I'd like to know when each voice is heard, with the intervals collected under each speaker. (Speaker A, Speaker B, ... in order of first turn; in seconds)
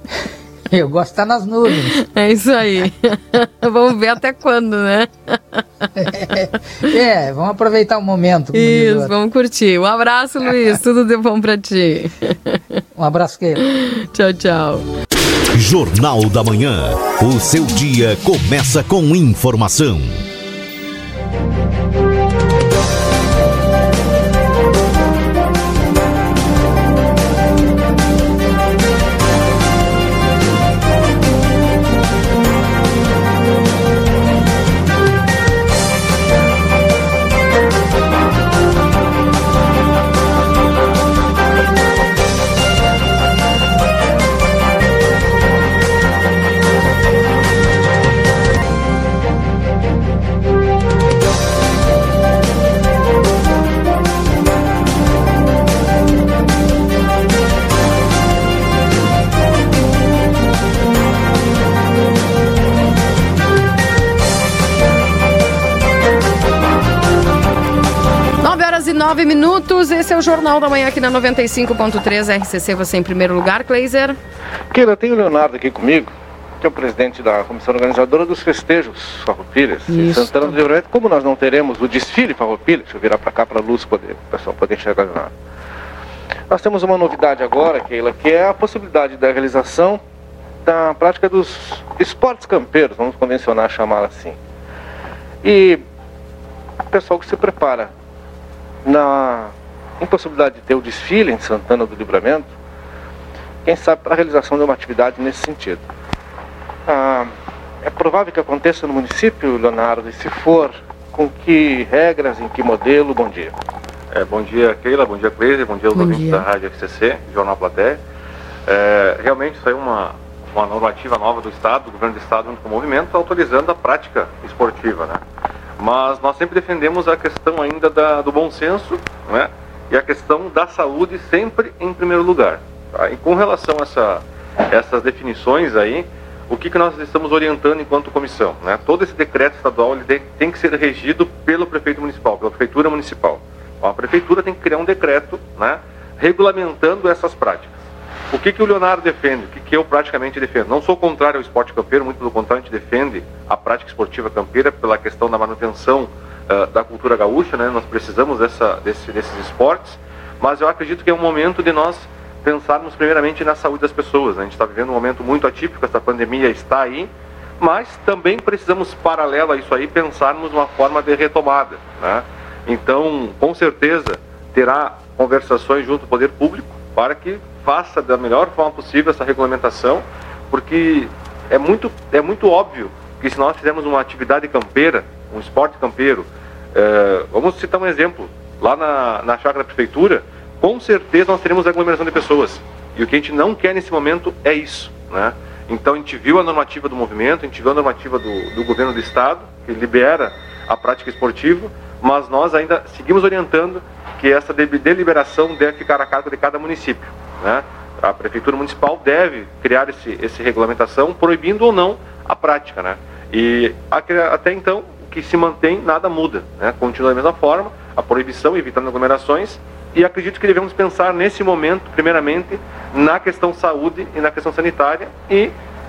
Speaker A: 0.7-2.0, 6.0-9.1, 12.9-13.6
Speaker B: 1.9-5.6, 8.5-12.6, 13.6-14.8, 68.4-74.2, 79.9-80.6, 115.9-116.4
Speaker C: 15.5-20.2
Speaker D: 74.7-85.3, 86.5-90.0, 90.6-94.4, 95.4-95.8, 96.9-97.9, 98.8-102.5, 103.6-105.8, 106.9-107.3, 107.8-113.5
Speaker E: 114.1-118.0, 118.7-125.2, 125.8-147.7, 148.3-225.5